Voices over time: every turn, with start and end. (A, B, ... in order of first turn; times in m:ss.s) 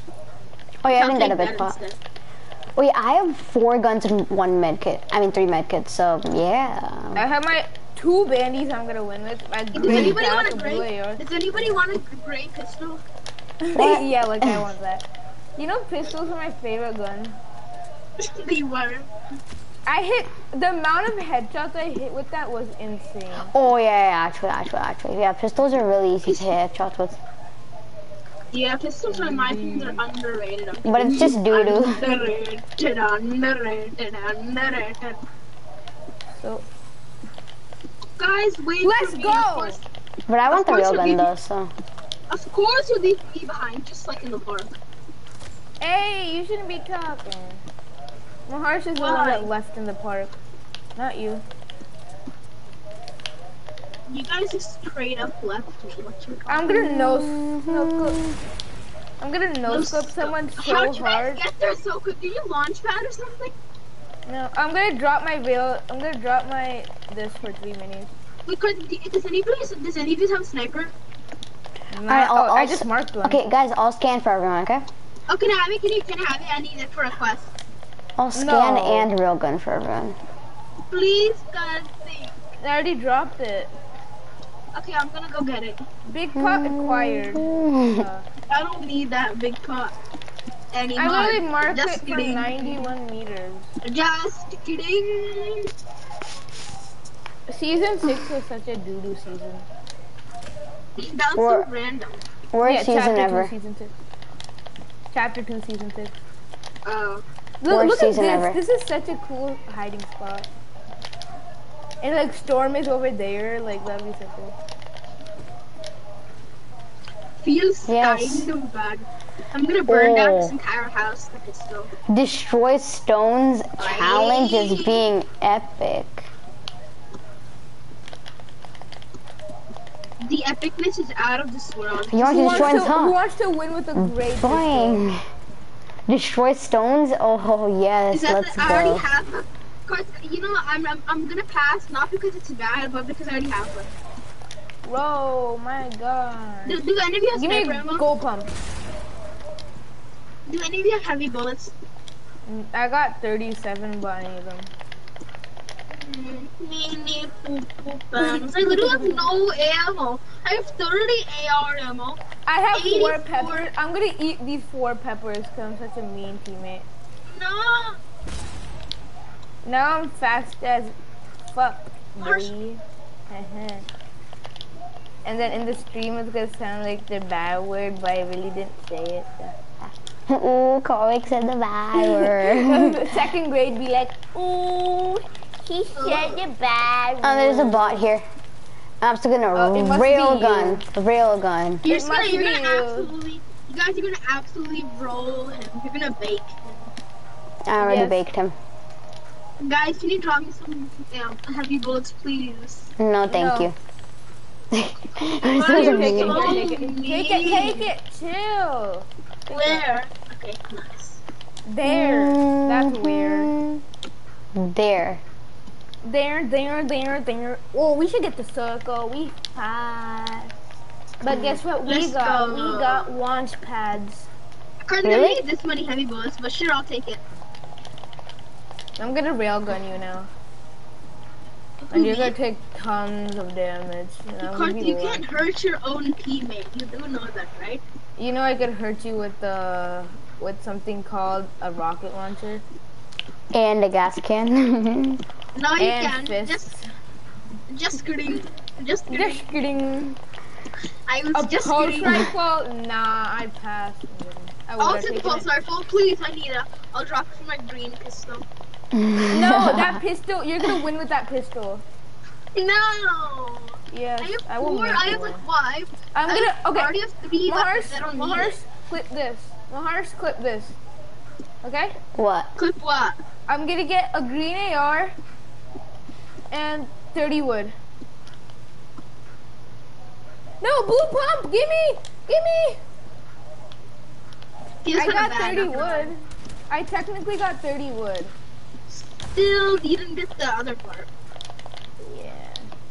0:00.8-0:01.7 A
0:00.9-0:02.0 B
0:02.8-0:07.2 A
0:07.1-0:11.2 C
0:09.7-0:13.0 B
0:09.9-0:10.1 A
0:13.6-0:17.4 C
0:13.8-0:14.6 A
0:18.2-0:19.1 B
0:19.9-0:23.5 C
0:23.5-0:27.2 A
0:28.5-0:35.2 B
0:29.1-0:30.0 C
0:30.8-0:32.0 A
0:36.4-0:36.6 C
0:38.2-0:39.8 B
0:38.8-0:39.8 C
0:40.3-0:41.7 A
0:40.4-0:41.3 B
0:42.3-0:44.8 B
0:45.8-0:47.6 C
0:48.5-0:50.4 C
0:49.0-0:49.5 B
0:51.0-0:51.4 C
0:54.1-0:56.7 B
0:56.5-0:58.2 C
0:56.7-0:58.3 A
0:59.2-1:01.4 C
0:59.7-1:03.5 B
1:04.2-1:08.1 C
1:08.4-1:10.9 B
1:11.9-1:13.4 C
1:12.1-1:14.8 A
1:15.3-1:17.5 B
1:18.2-1:20.2 A
1:18.3-1:19.1 C
1:20.9-1:22.3 B
1:22.6-1:23.7 C
1:24.7-1:25.8 B
1:26.0-1:28.3 C
1:26.3-1:28.0 A
1:28.5-1:29.9 B
1:30.7-1:32.8 B
1:31.0-1:33.7 C
1:33.8-1:35.7 B
1:37.5-1:39.6 C
1:41.0-1:42.2 B
1:41.4-1:41.7 A
1:42.5-1:43.5 A
1:42.6-1:43.9 C
1:45.1-1:46.2 C
1:46.8-1:47.2 B
1:47.6-1:50.5 C
1:47.6-1:48.6 A
1:52.0-1:54.5 C
1:57.4-2:01.9 B
1:57.8-1:58.5 A
1:59.9-2:00.5 A
2:02.1-2:06.3 A
2:03.8-2:05.0 B
2:10.2-2:12.8 B
2:12.1-2:13.2 A
2:12.2-2:15.0 C
2:14.0-2:15.2 A
2:16.1-2:19.0 A
2:18.1-2:23.9 B
2:24.8-2:26.8 C
2:26.6-2:28.1 B
2:27.3-2:28.5 C
2:30.4-2:31.7 B
2:32.4-2:34.7 C
2:35.9-2:42.2 B
2:38.2-2:39.3 C
2:42.4-2:46.8 C
2:42.7-2:43.6 B
2:47.3-2:48.0 B
2:49.6-2:51.0 C
2:51.5-2:53.9 C
2:52.2-2:52.5 B
2:55.2-2:59.5 C
3:00.3-3:03.1 A
3:02.0-3:08.0 C
3:05.9-3:06.4 B
3:07.2-3:08.2 A
3:09.0-3:11.8 A
3:09.5-3:10.8 C
3:11.8-3:16.7 B
3:11.8-3:13.1 C
3:17.7-3:18.5 A
3:17.8-3:18.2 C
3:19.6-3:22.9 B
3:23.0-3:23.7 A
3:23.3-3:23.7 C
3:24.7-3:26.6 A
3:25.5-3:27.9 B
3:25.6-3:29.8 C
3:29.5-3:31.2 B
3:31.6-3:33.5 C
3:31.8-3:33.8 A
3:34.5-3:35.2 A
3:36.0-3:40.5 C
3:41.2-3:44.3 C
3:41.8-3:43.1 B
3:44.8-3:47.2 B
3:45.0-3:45.4 A
3:49.0-3:50.3 C
3:51.8-3:52.3 B
3:51.9-3:55.2 C
3:54.4-3:57.8 B
3:58.2-4:02.6 C
4:03.5-4:05.2 A
4:05.5-4:06.7 B
4:05.8-4:06.8 C
4:07.7-4:09.4 B
4:09.1-4:10.2 C
4:11.1-4:12.3 B
4:11.3-4:15.5 C
4:14.8-4:18.4 B
4:18.9-4:20.0 A
4:19.3-4:21.8 C
4:22.5-4:28.5 B
4:23.9-4:25.4 C
4:26.1-4:26.9 C
4:27.4-4:30.8 C
4:31.6-4:31.9 C
4:32.2-4:32.5 A
4:32.6-4:33.2 B
4:33.5-4:35.2 C
4:36.5-4:37.7 C
4:40.6-4:42.8 C
4:44.8-4:46.1 B
4:45.0-4:48.3 C
4:48.9-4:51.1 B
4:52.0-4:52.7 C